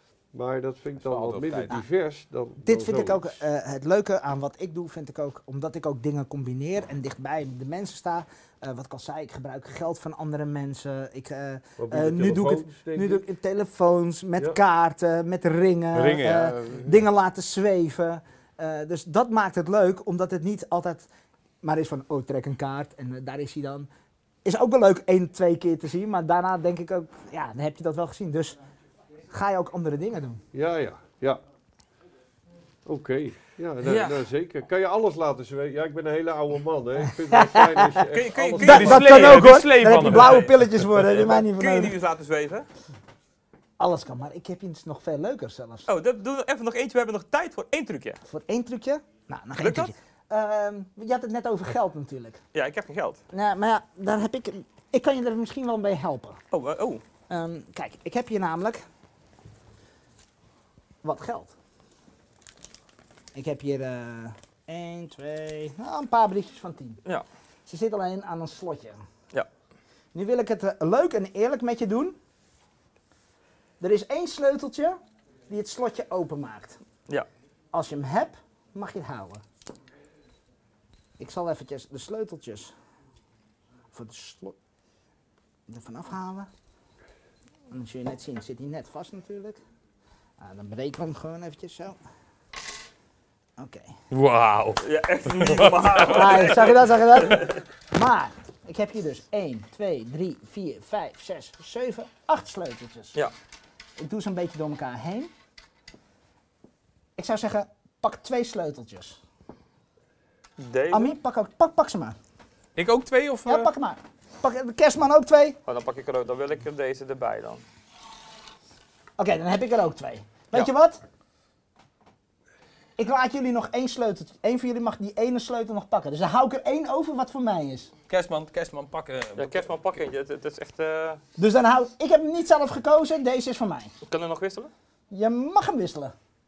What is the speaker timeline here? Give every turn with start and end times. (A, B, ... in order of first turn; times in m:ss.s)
0:00.3-0:03.4 A
0:01.0-0:01.8 B
0:02.6-0:21.1 C
0:11.8-0:13.2 A
0:15.9-0:16.8 B
0:21.6-0:23.9 C
0:24.4-0:28.6 C
0:29.3-0:30.4 C
0:30.5-0:31.4 A
0:32.8-0:39.0 A
0:33.8-0:34.2 D
0:37.3-0:38.0 C
0:38.0-0:40.5 D
0:38.6-0:40.7 B
0:38.6-0:41.9 C
0:41.2-0:42.6 D
0:43.8-0:45.9 C
0:45.9-0:48.2 D
0:48.3-0:52.4 C
0:49.6-0:49.9 D
0:52.5-0:53.2 D
0:53.3-0:56.4 C
0:56.5-0:57.0 D
0:57.3-0:58.8 C
1:01.0-1:01.5 C
1:03.3-1:07.0 C
1:07.7-1:09.0 C
1:10.1-1:12.2 C
1:13.8-1:16.8 C
1:17.7-1:19.4 C
1:21.2-1:22.7 C
1:23.9-1:24.6 C
1:25.7-1:26.5 C
1:27.7-1:29.6 C
1:30.4-1:32.0 C
1:33.6-1:34.0 C
1:34.1-1:34.8 B
1:34.8-1:37.6 D
1:35.4-1:36.4 B
1:36.0-1:43.2 C
1:44.0-1:45.3 C
1:47.2-1:49.2 C
1:50.6-1:51.2 D
1:50.9-1:52.2 C
1:52.8-1:53.7 B
1:53.4-1:55.6 C
1:55.6-1:57.6 D
1:59.2-2:01.0 C
2:03.0-2:07.9 C
2:08.1-2:09.7 B
2:09.4-2:11.2 D
2:11.4-2:13.9 C
2:14.0-2:14.7 D
2:15.1-2:16.1 C